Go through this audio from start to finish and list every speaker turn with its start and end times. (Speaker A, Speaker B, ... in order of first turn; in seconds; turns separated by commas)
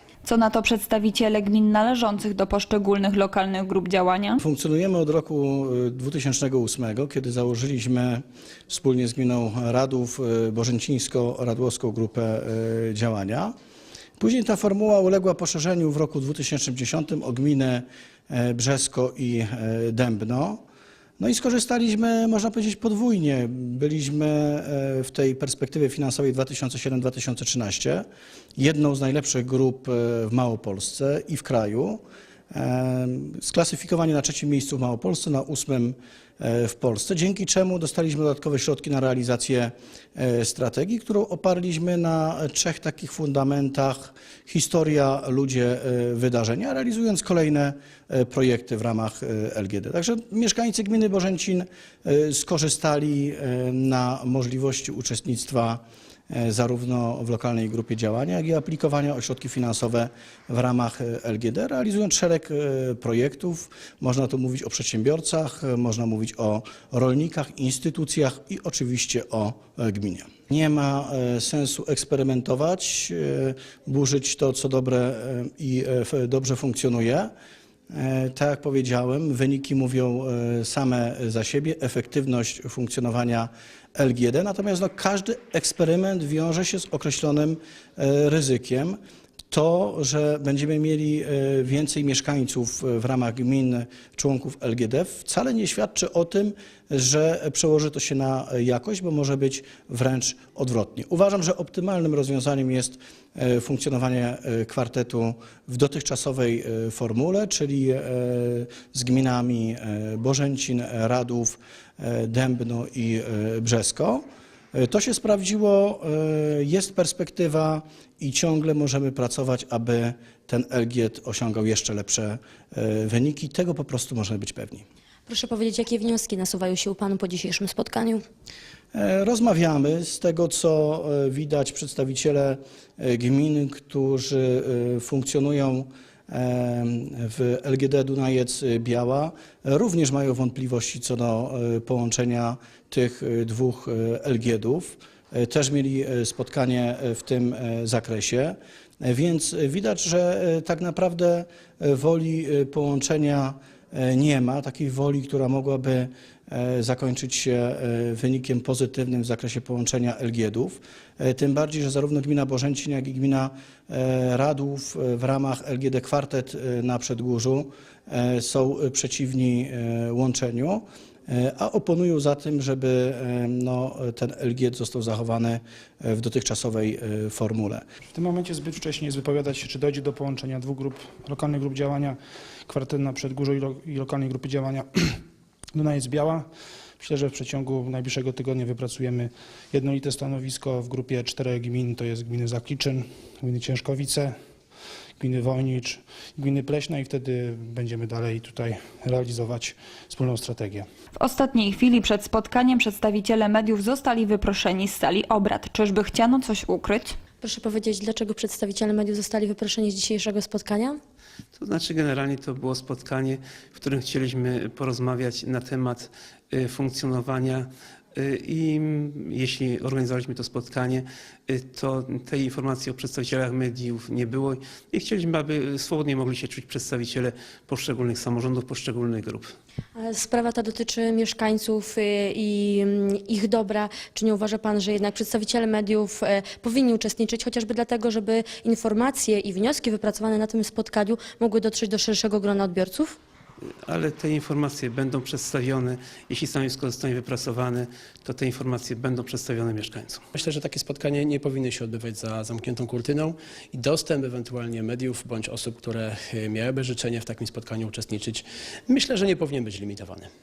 Speaker A: 0.2-4.4, Speaker B: 4.4-13.5, Speaker B: 14.2-20.6, Speaker B: 21.2-32.0, Speaker B: 32.5-77.3, Speaker B: 77.9-89.0, Speaker B: 89.5-124.8, Speaker C: 125.3-128.2, Speaker B: 128.9-177.8, Speaker D: 178.1-185.2, Speaker D: 185.7-186.5, Speaker D: 187.0-194.3, Speaker D: 195.2-200.9, Speaker A: 201.2-207.2, Speaker C: 207.4-211.0, Speaker E: 211.6-229.5, Speaker C: 229.9-243.2, Speaker E: 243.9-250.2, Speaker F: 250.3-260.3